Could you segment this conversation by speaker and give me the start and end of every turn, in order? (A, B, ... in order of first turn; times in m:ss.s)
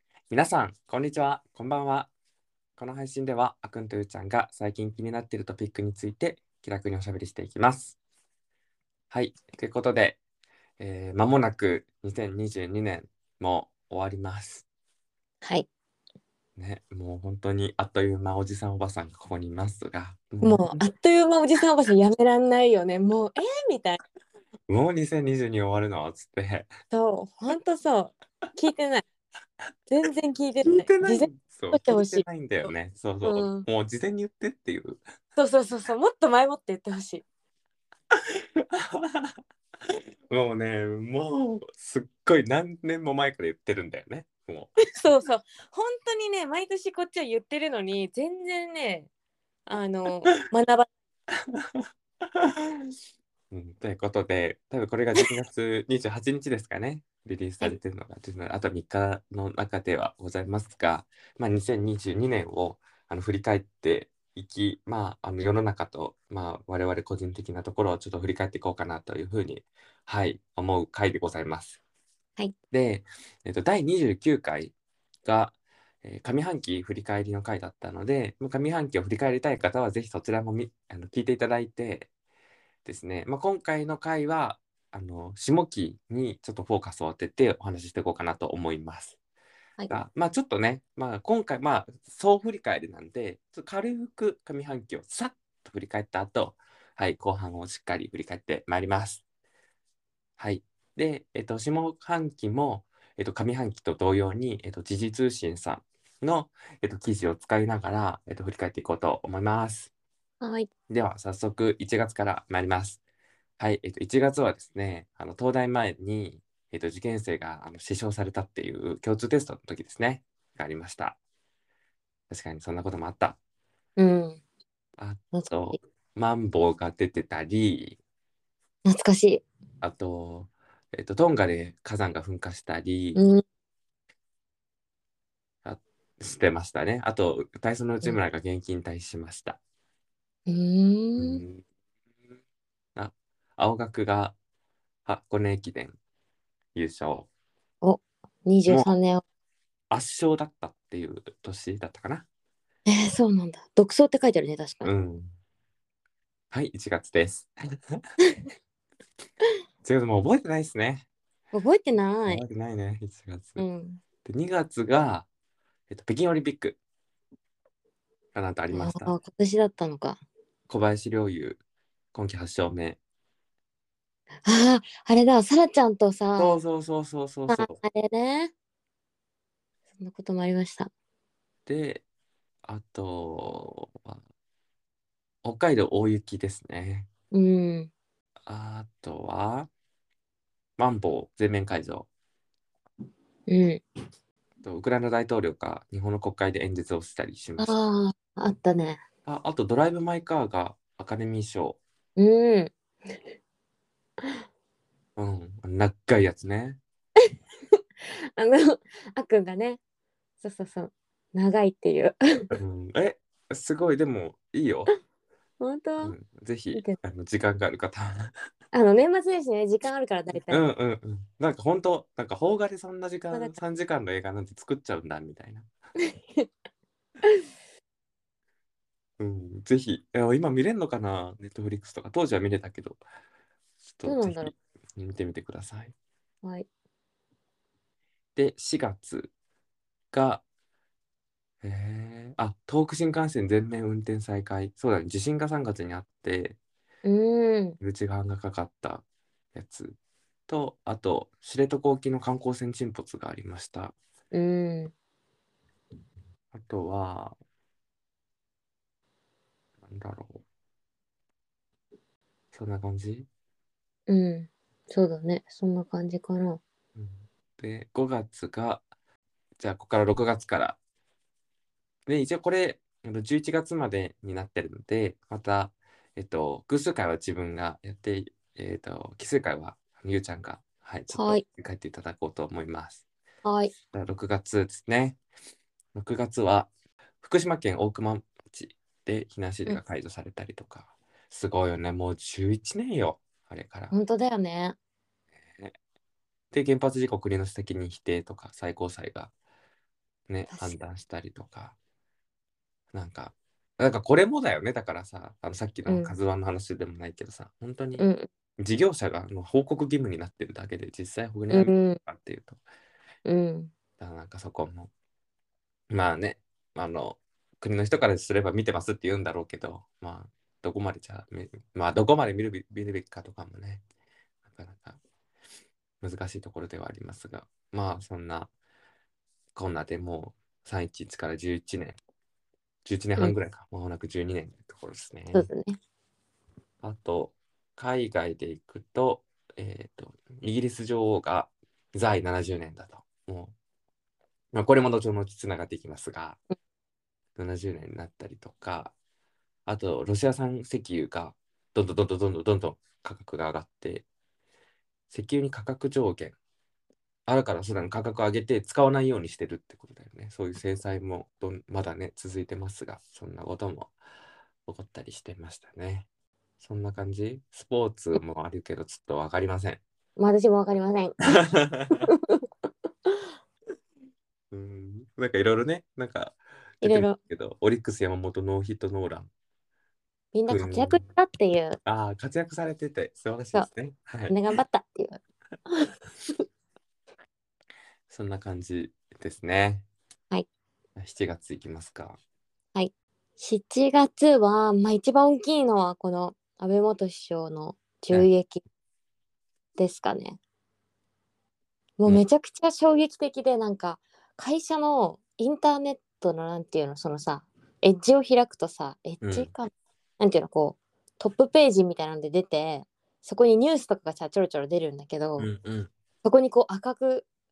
0:00.3-0:02.1 A
0:02.8-0:08.0 A
0:09.1-0:10.2 A
0:10.8-0:14.6 A
0:15.4-0:15.7 B
0:16.6-0:20.8 A
0:20.4-0:24.0 B
0:24.7-0:26.7 A
0:26.9-0:29.0 B
0:29.9-0:32.7 B
0:30.6-0:35.0 A
0:33.2-0:33.7 B
0:35.4-0:37.2 B
0:38.1-0:39.4 A
0:39.9-0:44.8 A
0:45.0-0:49.1 B
0:49.7-0:50.9 B
0:51.4-0:53.0 A
0:53.5-1:11.8 A
1:12.7-1:14.7 A
1:15.2-1:22.1 A
1:22.8-1:29.2 A
1:29.9-1:39.2 A
1:40.4-1:49.9 A
1:50.4-1:50.7 B
1:50.9-1:53.0 A
1:53.6-2:01.2 A
2:02.3-2:03.4 A
2:04.0-2:04.4 B
2:05.0-2:08.0 A
2:05.3-2:05.8 B
2:08.8-2:09.4 B
2:09.8-2:13.2 A
2:13.2-2:13.4 B
2:15.6-2:19.6 A
2:20.5-2:21.4 B
2:21.2-2:21.6 A
2:23.0-2:24.4 A
2:25.1-2:26.0 A
2:26.8-2:27.3 A
2:27.8-2:29.2 B
2:29.9-2:32.3 A
2:32.9-2:34.9 B
2:34.8-2:35.4 A
2:36.5-2:38.0 A
2:39.8-2:41.1 A
2:41.5-2:42.4 B
2:42.3-2:43.6 A
2:43.6-2:44.0 B
2:44.2-2:45.3 A
2:45.9-2:46.8 A
2:48.3-2:49.1 A
2:48.7-2:50.2 B
2:50.7-2:51.6 A
2:52.1-2:53.0 A
2:54.4-2:56.6 B
2:56.4-2:57.8 A
2:57.5-2:58.5 B
3:00.0-3:00.9 B
3:01.7-3:02.0 A
3:02.6-3:04.2 A
3:05.4-3:07.1 A
3:07.3-3:07.9 B
3:08.5-3:09.7 A
3:10.8-3:12.1 A
3:13.5-3:13.8 B
3:14.6-3:17.8 A
3:17.6-3:19.0 B
3:19.3-3:21.8 A
3:22.2-3:22.7 B
3:25.2-3:26.8 A
3:28.1-3:29.8 B
3:30.4-3:32.5 B
3:32.6-3:34.9 A
3:35.6-3:36.2 B
3:36.0-3:38.3 A
3:38.7-3:40.6 B
3:40.5-3:45.7 A
3:43.3-3:43.6 B
3:46.1-3:46.5 B
3:49.2-3:53.0 A
3:54.0-3:55.9 A
3:54.0-3:54.5 B
3:58.4-3:59.3 A
4:00.1-4:00.4 A
4:01.6-4:06.6 A
4:07.0-4:07.8 B
4:07.8-4:09.0 A
4:09.6-4:10.0 A
4:10.5-4:14.0 A
4:14.3-4:14.9 B
4:16.5-4:17.4 A
4:19.8-4:20.4 A
4:22.5-4:23.3 A
4:24.1-4:26.6 B
4:27.0-4:28.8 A
4:29.6-4:30.8 A
4:32.1-4:43.0 A
4:41.1-4:41.4 B
4:43.4-4:43.7 B
4:43.9-4:45.2 A
4:46.0-4:46.7 A
4:47.2-4:53.9 A
4:53.9-4:54.8 B
4:56.5-4:59.3 A
5:00.3-5:01.8 A
5:00.5-5:00.8 B
5:02.9-5:08.1 A
5:05.9-5:06.1 B
5:08.0-5:08.3 B
5:08.6-5:12.6 A
5:11.5-5:12.0 B
5:13.2-5:13.7 B
5:14.0-5:14.9 A
5:15.9-5:23.8 A
5:24.5-5:25.0 A
5:26.0-5:28.5 A
5:29.6-5:32.0 A
5:32.8-5:35.5 A
5:35.3-5:35.8 B
5:36.8-5:43.5 A
5:44.5-5:46.4 A
5:47.4-5:48.9 A
5:49.7-5:54.1 A
5:55.1-5:56.4 A
5:57.3-6:03.9 A
6:04.7-6:06.1 A
6:06.6-6:09.8 A
6:10.2-6:11.2 B
6:11.3-6:12.1 A
6:11.9-6:12.4 B
6:14.5-6:19.3 A
6:16.8-6:17.2 B
6:20.3-6:21.8 B
6:20.5-6:21.0 A
6:21.8-6:24.4 A
6:24.3-6:25.9 B
6:28.1-6:29.8 A
6:31.0-6:32.2 A
6:32.8-6:38.6 B
6:39.8-6:40.4 B
6:42.0-6:55.5 B
6:49.2-6:49.5 A
6:55.4-6:55.9 A
6:56.2-6:57.3 B